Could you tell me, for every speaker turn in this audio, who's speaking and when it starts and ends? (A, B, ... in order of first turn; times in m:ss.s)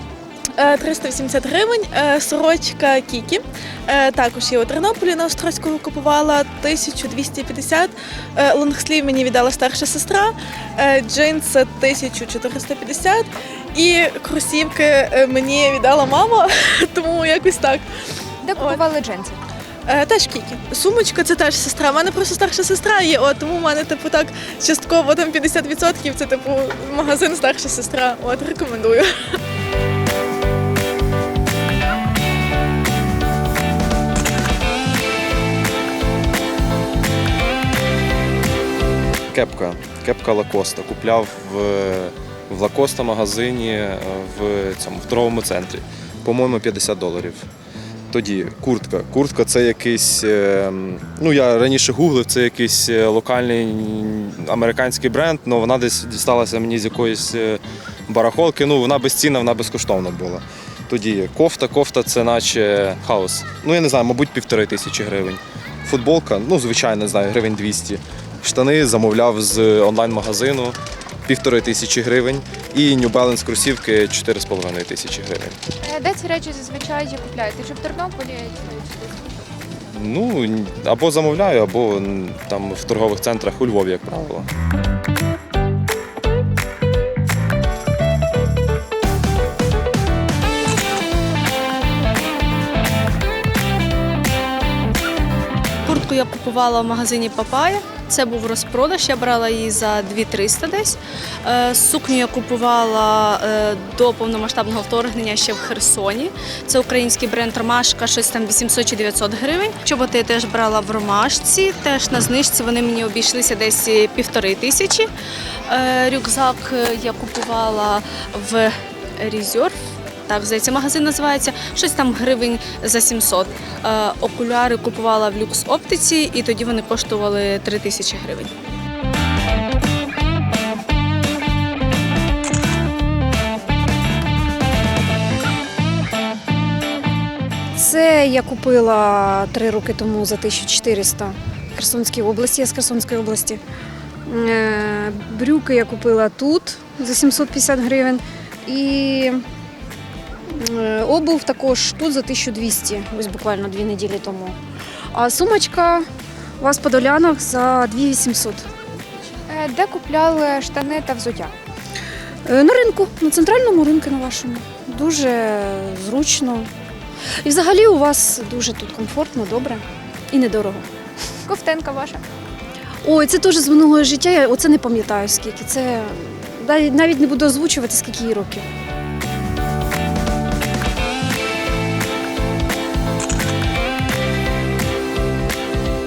0:00.5-0:17.8 A
0:18.4-0:19.4 B
0:19.9-0:29.1 A
0:39.3-0:47.4 C
0:48.1-1:15.6 C
1:15.8-1:19.2 B
1:19.9-1:24.5 C
1:35.8-1:55.1 D
1:55.7-1:59.7 D
2:00.3-2:08.5 D
2:17.8-2:23.6 E
2:24.3-2:29.4 E
2:30.5-2:34.6 E
2:35.1-2:36.0 E
2:36.6-2:38.6 E
2:39.5-2:41.5 B
2:42.4-2:46.7 E
2:47.4-2:50.9 E
2:51.4-2:52.2 B
2:53.0-2:58.6 E